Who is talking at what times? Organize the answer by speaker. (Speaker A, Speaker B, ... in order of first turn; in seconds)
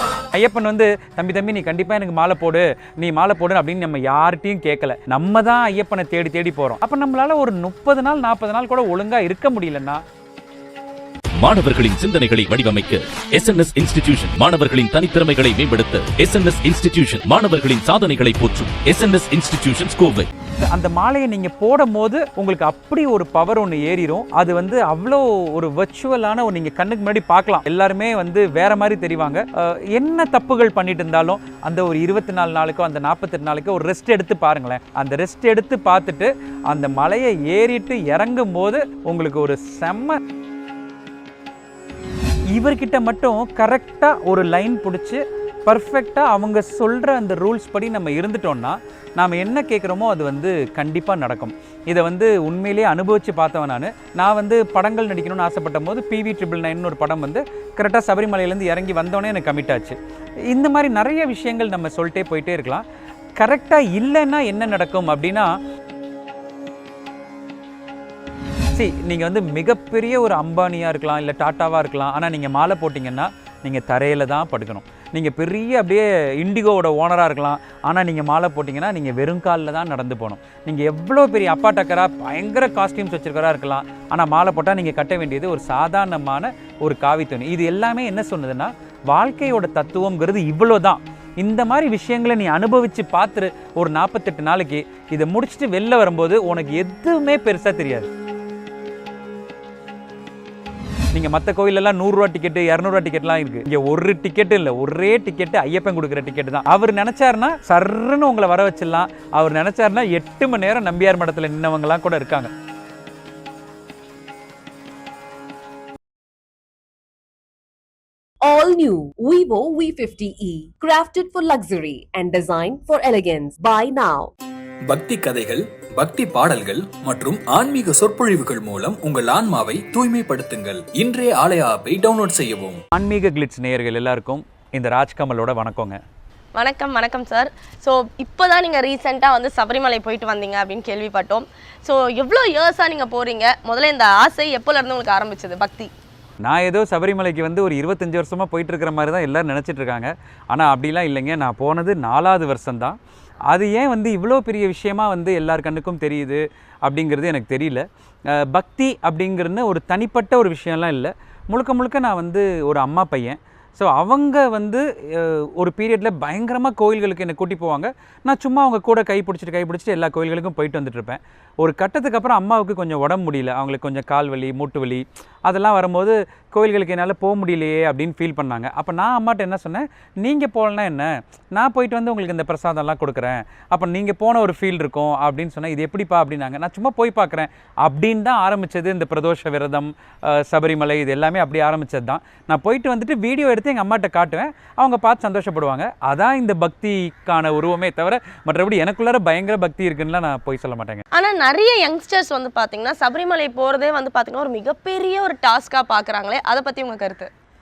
Speaker A: 0.3-10.0, 20.6-40.2, 42.5-60.0, 60.5-62.8, 63.4-65.5, 68.7-98.1, 101.1-112.5, 132.9-136.0, 146.4-153.0, 153.5-201.0
Speaker B: 11.4-20.3
Speaker C: 118.5-124.3
Speaker D: 124.9-132.8
Speaker E: 136.6-145.9, 201.1-207.3